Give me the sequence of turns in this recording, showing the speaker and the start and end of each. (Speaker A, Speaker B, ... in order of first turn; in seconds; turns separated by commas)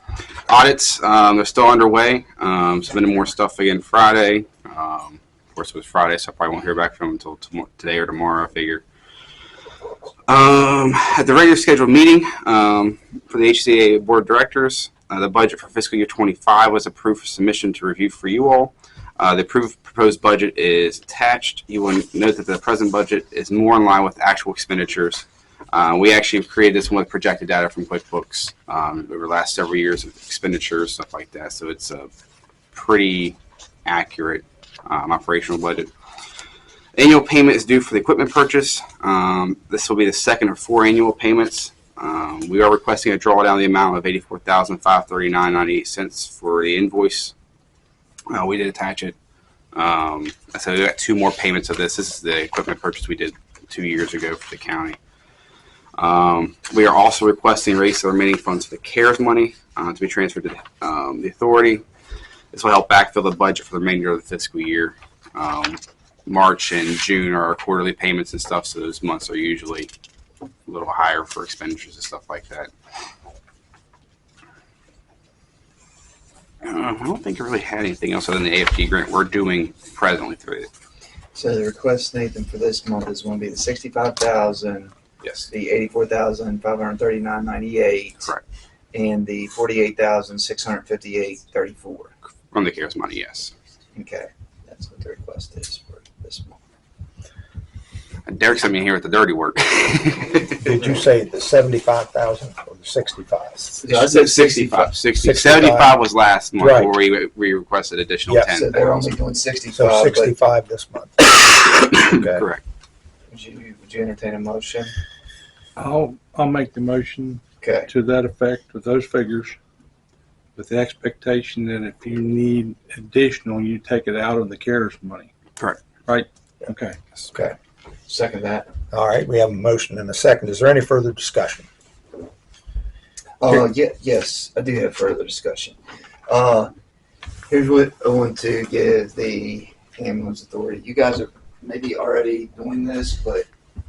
Speaker A: 0.5-8.8, Speaker A: 10.3-32.1, Speaker A: 32.7-35.9, Speaker A: 37.0-47.3, Speaker A: 48.3-49.2, Speaker A: 49.7-55.0, Speaker A: 56.0-61.8, Speaker A: 62.5-69.9, Speaker A: 70.7-72.7, Speaker A: 76.6-80.7, Speaker B: 81.3-84.9, Speaker A: 85.2-85.5, Speaker B: 85.5-88.3, Speaker B: 88.9-92.1, Speaker A: 92.5-93.5, Speaker B: 93.9-96.6, Speaker A: 98.3-100.7, Speaker C: 100.6-103.8, Speaker B: 103.8-104.9, Speaker A: 103.8-109.0, Speaker C: 105.2-106.0, Speaker C: 106.6-106.9, Speaker C: 108.3-109.1, Speaker B: 108.6-110.3, Speaker C: 109.7-111.2, Speaker A: 111.8-112.6, Speaker B: 112.0-112.5, Speaker B: 113.3-114.9, Speaker D: 115.8-119.6, Speaker B: 117.6-117.9, Speaker D: 120.5-125.3, Speaker D: 126.0-127.0, Speaker B: 127.3-127.5, Speaker B: 128.1-128.7, Speaker C: 128.9-131.7, Speaker B: 133.4-135.8, Speaker B: 136.3-136.7, Speaker B: 137.5-143.5